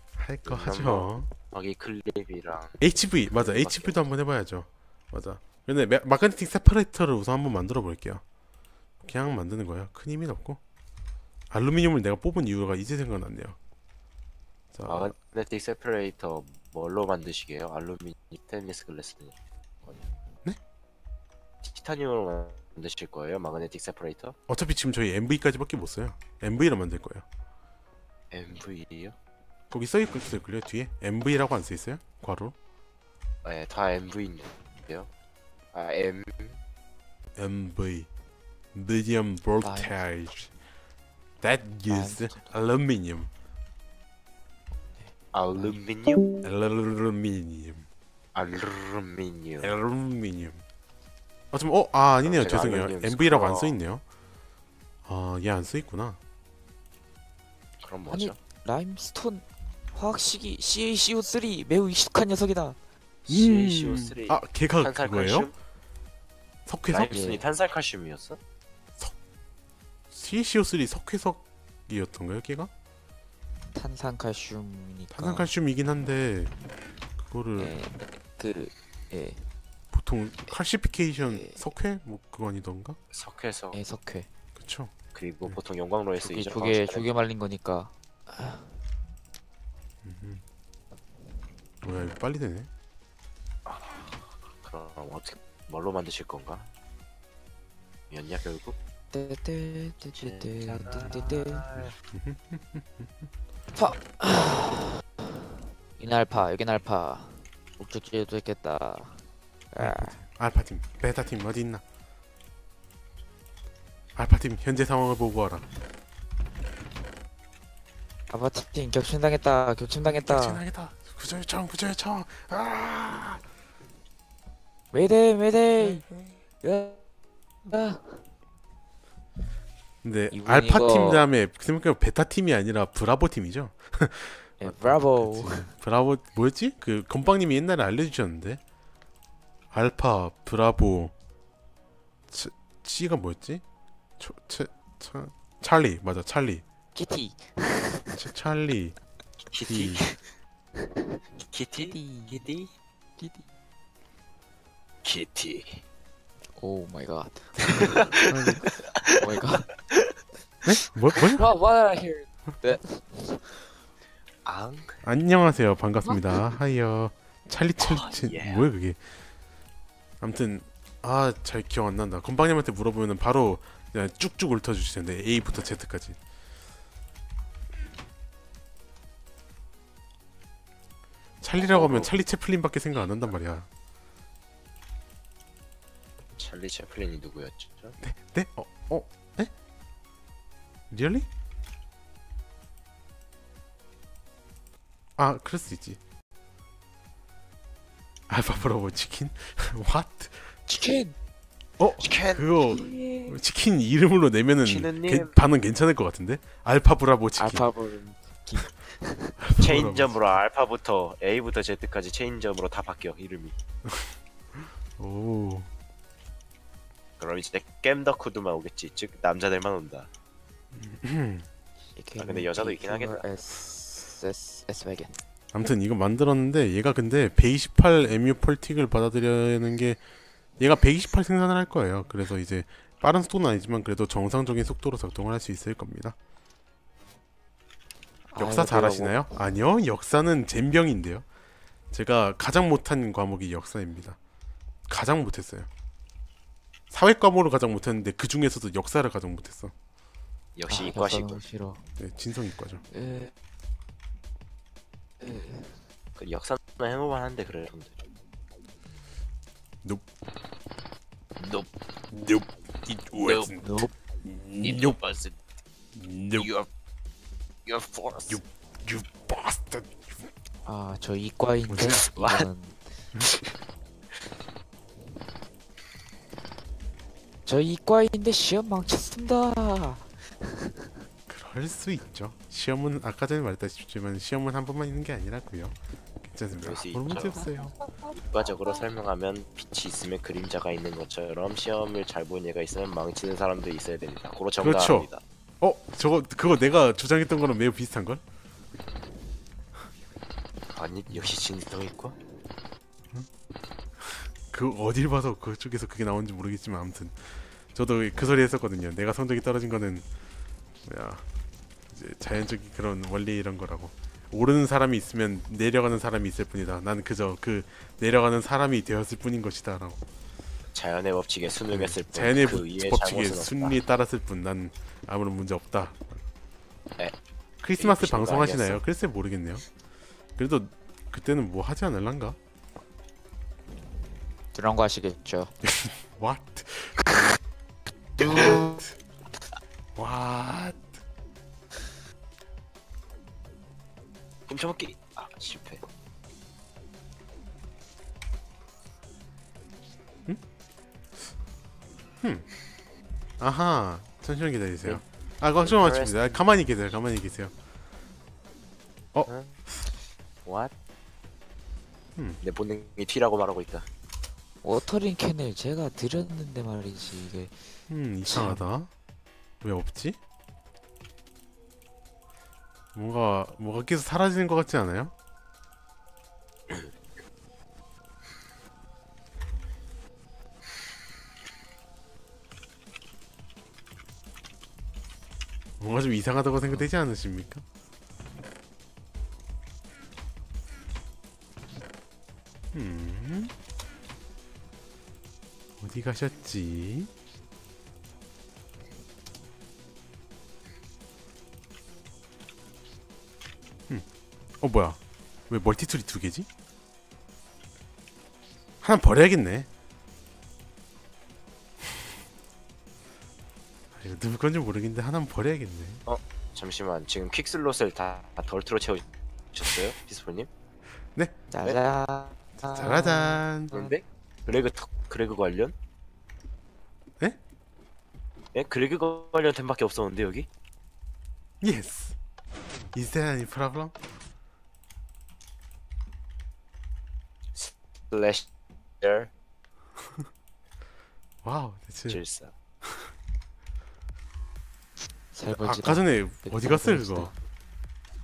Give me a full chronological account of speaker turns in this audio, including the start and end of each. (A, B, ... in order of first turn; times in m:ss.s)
0:00.2-0:01.3 A
0:00.4-0:04.1 B
0:02.8-0:08.2 A
0:09.0-0:10.6 A
0:11.5-0:13.6 A
0:14.7-0:15.1 A
0:14.9-0:20.0 B
0:21.6-0:24.4 B
0:24.5-0:27.3 A
0:28.3-0:29.2 B
0:29.7-0:32.6 A
0:33.4-0:35.1 B
0:35.7-0:36.6 B
0:37.4-0:38.1 A
0:38.7-0:40.5 A
0:39.6-0:40.0 C
0:41.4-0:43.3 A
0:41.9-0:42.6 C
0:45.0-0:45.8 C
0:45.3-0:46.2 B
0:46.4-0:47.9 A
0:48.4-0:49.8 B
0:49.6-0:50.6 A
0:51.5-0:54.0 A
0:52.2-0:53.8 B
0:55.1-0:56.2 A
0:57.8-0:58.4 B
0:58.1-1:02.8 C
1:03.3-1:05.6 B
1:03.3-1:05.5 A
1:06.7-1:07.2 A
1:06.9-1:08.4 B
1:07.1-1:07.4 C
1:10.1-1:12.7 A
1:13.7-1:15.5 C
1:15.1-1:16.5 A
1:17.2-1:17.8 A
1:17.6-1:19.5 C
1:19.9-1:23.0 A
1:21.2-1:21.6 C
1:23.1-1:23.8 B
1:23.7-1:24.3 C
1:24.6-1:24.9 A
1:25.1-1:27.1 B
1:26.2-1:28.7 C
1:30.0-1:30.4 A
1:31.8-1:32.7 A
1:33.7-1:36.7 B
1:38.1-1:38.8 B
1:39.1-1:41.7 C
1:40.2-1:41.9 B
1:42.1-1:43.1 A
1:43.7-1:45.0 C
1:46.0-1:50.2 C
1:49.8-1:51.8 A
1:54.2-1:55.7 A
1:58.3-2:00.6 C
2:00.0-2:03.4 A
2:04.9-2:06.1 C
2:05.8-2:06.3 A
2:06.6-2:07.0 C
2:07.7-2:08.2 C
2:10.0-2:18.6 A
2:10.3-2:11.3 C
2:14.6-2:15.7 C
2:19.7-2:21.2 A
2:22.3-2:23.6 A
2:24.2-2:26.6 A
2:27.0-2:28.3 C
2:28.2-2:29.0 A
2:29.5-2:30.1 B
2:29.7-2:30.1 A
2:30.8-2:31.2 C
2:31.5-2:32.7 B
2:31.7-2:32.4 C
2:33.2-2:33.4 C
2:35.0-2:35.8 B
2:36.6-2:39.8 C
2:37.6-2:40.1 B
2:38.3-2:38.6 A
2:40.7-2:41.5 A
2:41.2-2:43.6 C
2:44.4-2:45.0 B
2:45.0-2:49.1 A
2:47.8-2:48.7 B
2:50.2-2:56.2 A
3:01.4-3:03.7 A
3:01.6-3:02.2 B
3:06.4-3:08.0 B
3:08.0-3:09.5 A
3:10.9-3:11.3 A
3:15.2-3:16.0 A
3:18.3-3:20.5 A
3:20.7-3:21.2 C
3:21.8-3:27.7 A
3:22.0-3:22.5 B
3:22.7-3:23.4 C
3:24.6-3:25.4 B
3:27.4-3:29.4 C
3:29.4-3:30.2 A
3:29.6-3:33.6 B
3:33.9-3:34.1 A
3:35.0-3:35.7 A
3:37.2-3:40.1 B
3:40.7-3:41.5 A
3:42.0-3:45.2 C
3:42.2-3:43.3 B
3:45.5-3:50.0 A
3:50.6-3:56.2 A
3:58.3-3:59.2 C
3:58.4-4:01.3 A
4:01.9-4:04.2 A
4:04.9-4:05.7 A
4:06.9-4:09.7 A
4:10.6-4:11.4 B
4:10.7-4:11.9 C
4:12.0-4:12.8 A
4:12.9-4:13.3 C
4:15.2-4:15.8 C
4:16.2-4:18.0 B
4:21.4-4:21.7 B
4:22.1-4:25.0 A
4:23.2-4:23.6 B
4:23.6-4:23.9 C
4:24.6-4:25.4 B
4:25.9-4:26.5 A
4:26.4-4:26.7 B
4:27.7-4:28.4 B
4:28.3-4:30.3 A
4:30.6-4:32.8 C
4:31.7-4:32.1 A
4:31.9-4:32.5 B
4:37.5-4:41.0 C
4:41.3-4:47.8 A
4:46.6-4:47.5 B
4:48.1-4:55.2 B
4:54.6-4:55.1 A
4:55.6-4:58.2 A
5:00.7-5:02.2 B
5:01.1-5:01.4 A
5:04.0-5:10.1 A
5:10.8-5:11.2 A
5:11.9-5:20.0 A
5:20.7-5:23.8 B
5:21.7-5:26.2 A
5:27.6-5:29.7 A
5:27.8-5:28.8 B
5:30.4-5:32.4 A
5:34.5-5:35.5 C
5:35.6-5:37.0 A
5:38.2-5:39.0 A
5:40.0-5:40.9 A
5:44.5-5:45.8 B
5:52.2-5:52.5 A
5:53.4-5:57.6 A
5:55.6-5:56.5 B
5:59.3-5:59.7 B
6:00.4-6:00.7 B
6:02.4-6:03.9 B
6:04.6-6:07.6 C
6:07.9-6:08.9 A
6:08.2-6:08.6 C
6:09.6-6:10.2 A
6:13.0-6:15.1 A
6:25.8-6:27.6 A
6:32.7-6:33.5 A
6:35.8-6:37.1 A
6:44.6-6:46.5 A
6:48.8-6:49.7 A
6:54.0-6:56.0 A
6:56.1-7:00.5 B
7:01.5-7:03.9 C
7:02.6-7:03.8 A
7:03.7-7:05.8 B
7:08.5-7:10.5 B
7:11.6-7:12.2 A
7:12.9-7:14.0 A
7:17.6-7:18.5 B
7:19.0-7:19.3 B
7:21.4-7:22.2 A
7:22.1-7:22.5 B
7:25.3-7:27.3 C
7:25.5-7:27.3 A